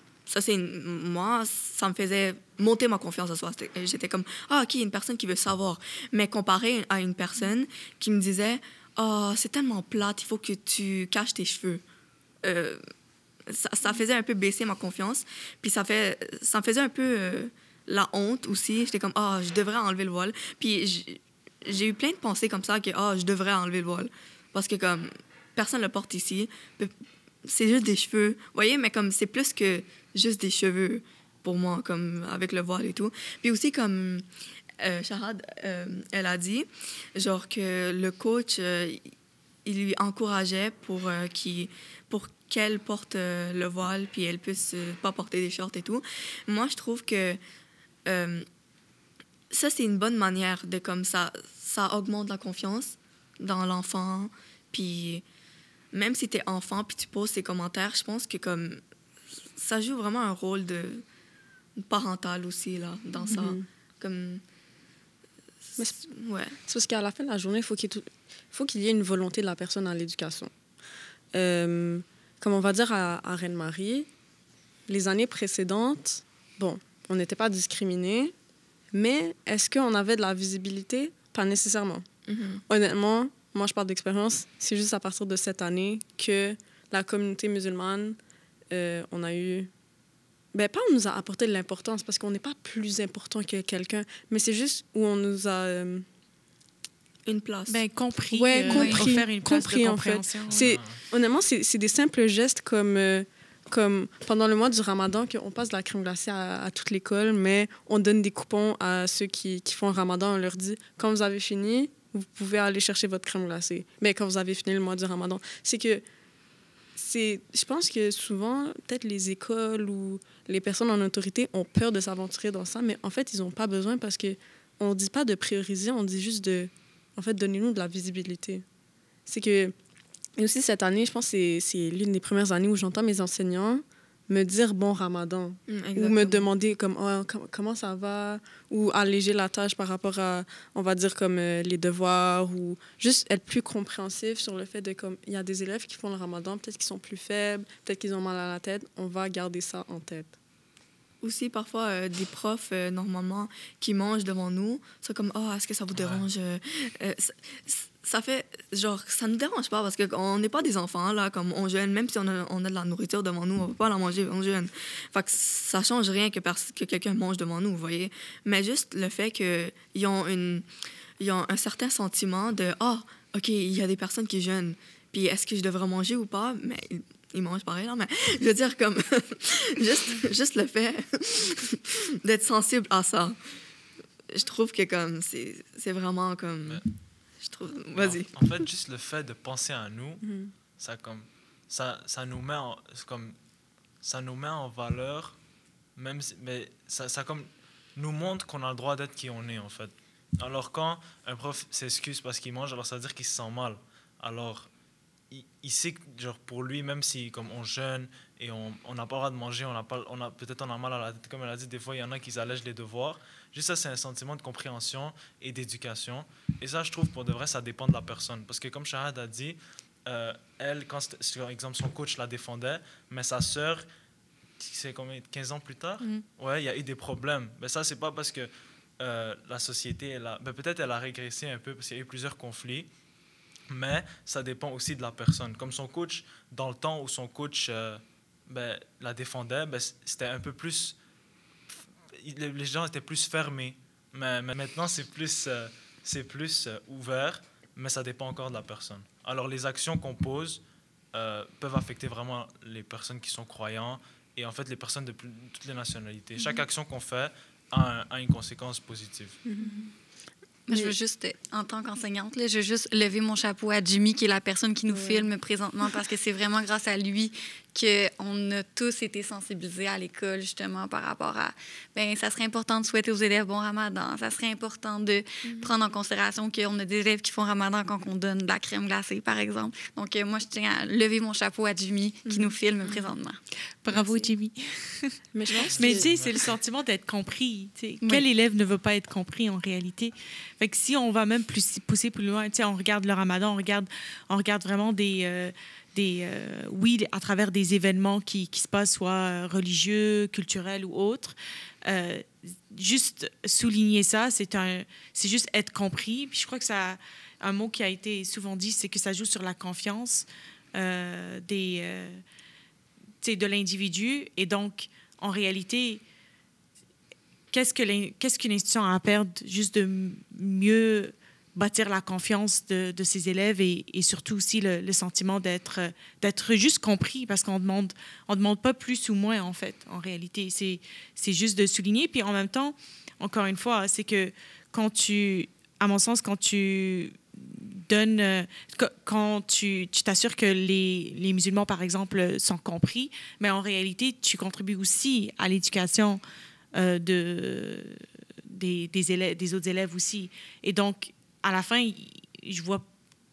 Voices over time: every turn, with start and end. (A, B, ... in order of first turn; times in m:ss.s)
0:00.3-0:11.8 A
0:12.4-0:12.8 A
0:13.5-0:26.9 A
0:27.4-0:34.3 A
0:34.8-0:39.0 A
0:39.6-0:47.4 A
0:48.1-0:48.5 A
0:49.5-0:55.2 A
0:55.9-0:58.8 A
0:59.6-1:01.0 A
1:01.8-1:04.4 A
1:03.2-1:03.6 B
1:05.8-1:06.6 A
1:06.6-1:10.5 B
1:11.3-1:14.1 B
1:14.9-1:18.3 B
1:18.9-1:22.1 B
1:22.3-1:22.6 A
1:22.7-1:28.2 B
1:28.7-1:29.7 B
1:30.5-1:36.1 B
1:37.3-1:37.8 A
1:37.7-1:40.7 C
1:38.3-1:56.0 B
1:38.7-1:39.1 D
1:40.5-1:41.0 E
1:57.0-2:08.6 B
2:09.3-2:09.7 B
2:10.4-2:30.4 B
2:15.7-2:16.5 A
2:31.2-2:50.7 A
2:35.9-2:36.3 E
2:51.2-3:03.4 A
3:04.3-3:06.8 A
3:07.4-3:08.3 A
3:08.0-3:13.4 E
3:10.2-3:10.5 B
3:14.0-3:15.4 E
3:16.0-3:24.7 E
3:25.3-3:43.9 E
3:44.6-3:52.9 E
3:53.7-4:01.0 E
4:02.1-4:10.6 E
4:11.1-4:19.4 E
4:19.4-4:19.8 B
4:20.7-4:44.0 D
4:20.7-4:21.0 B
4:24.9-4:25.3 B
4:35.4-4:35.7 A
4:42.2-4:43.0 A
4:43.8-4:45.2 C
4:45.3-4:46.1 B
4:45.7-4:46.5 E
4:45.8-5:12.2 C
5:13.2-5:16.0 C
5:17.5-5:46.2 C
5:46.8-5:52.8 C